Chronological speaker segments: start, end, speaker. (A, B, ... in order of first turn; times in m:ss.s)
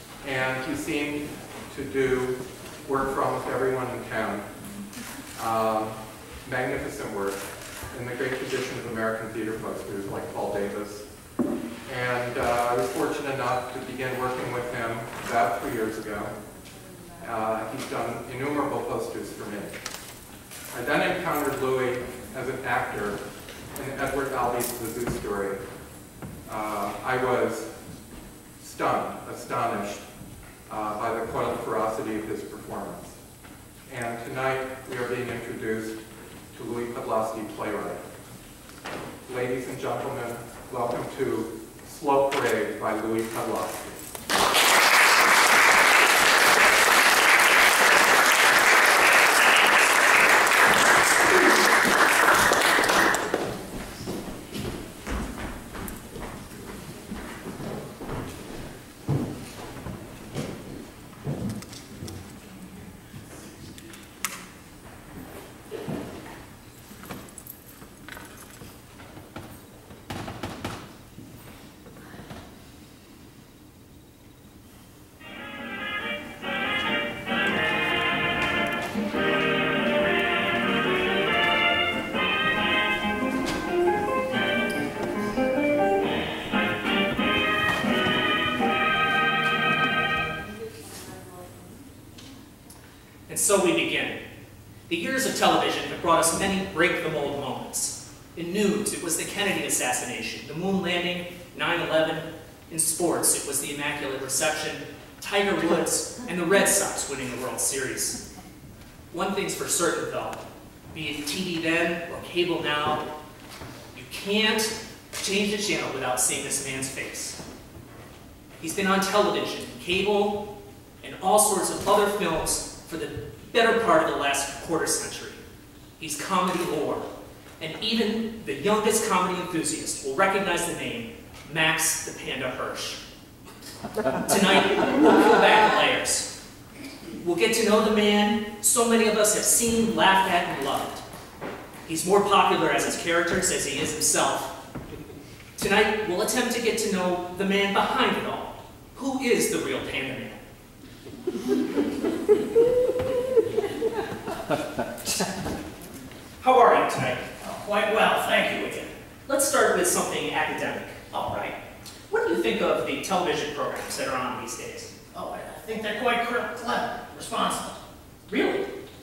0:00.2-0:04.4 A
0:05.3-0:11.1 A
0:11.8-0:16.3 A
0:17.2-0:19.8 A
0:20.7-0:23.2 A
0:23.7-0:25.6 A
0:26.4-0:27.7 A
0:28.6-0:30.0 A
0:30.7-0:33.2 A
0:33.9-0:36.0 A
0:36.5-0:38.0 A
0:39.2-0:44.0 A
1:33.3-1:34.2 B
1:34.9-1:48.2 B
1:49.1-1:50.4 B
1:50.9-1:53.0 B
1:53.9-1:57.4 B
1:58.6-2:00.4 B
2:01.0-2:05.4 B
2:06.0-2:13.0 B
2:14.2-2:16.3 B
2:17.2-2:21.0 B
2:21.8-2:24.5 B
2:25.6-2:30.4 B
2:36.4-2:37.2 B
2:37.4-2:38.9 C
2:39.3-2:41.0 B
2:41.1-2:41.6 C
2:42.1-2:44.9 B
2:45.1-2:47.8 C
2:48.3-2:48.7 B